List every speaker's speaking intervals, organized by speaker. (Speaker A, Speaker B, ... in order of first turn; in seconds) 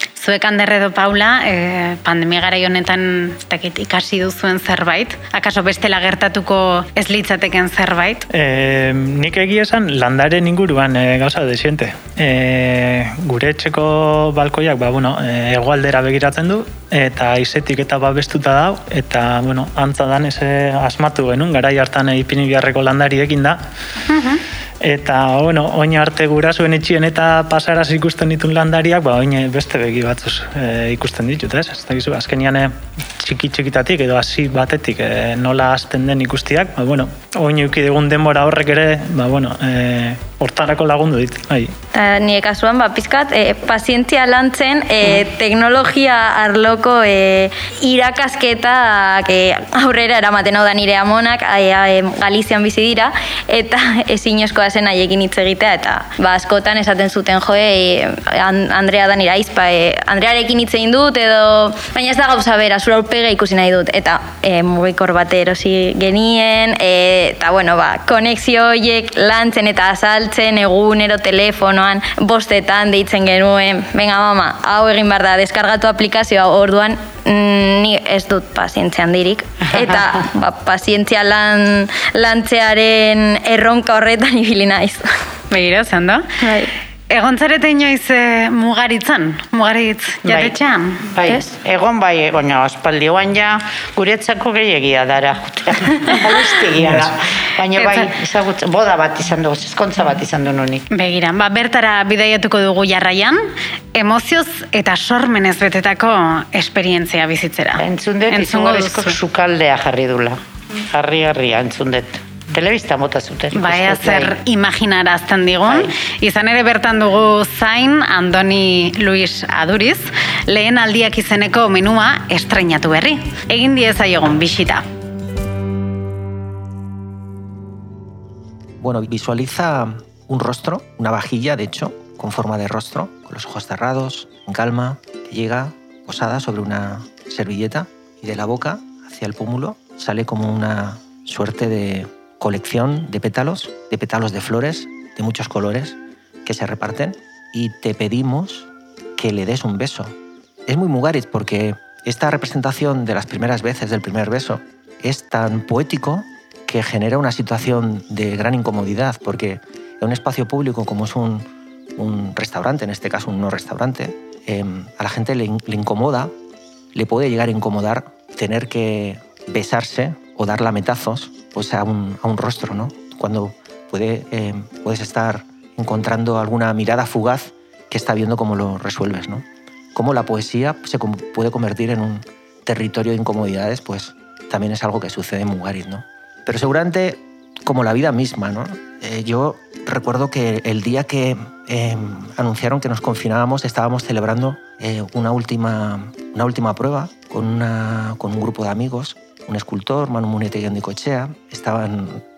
Speaker A: 0.2-8.2, 24.1-24.4, 85.5-86.3, 87.1-91.1, 97.8-98.1, 100.9-103.4, 103.9-109.2, 113.5-124.8
Speaker B: 8.3-23.6, 24.8-41.7
Speaker C: 41.9-85.0, 86.4-86.7
Speaker D: 90.2-90.6, 91.1-100.9, 107.8-114.3, 115.6-115.9
Speaker E: 128.8-150.1, 150.7-166.3, 166.9-202.2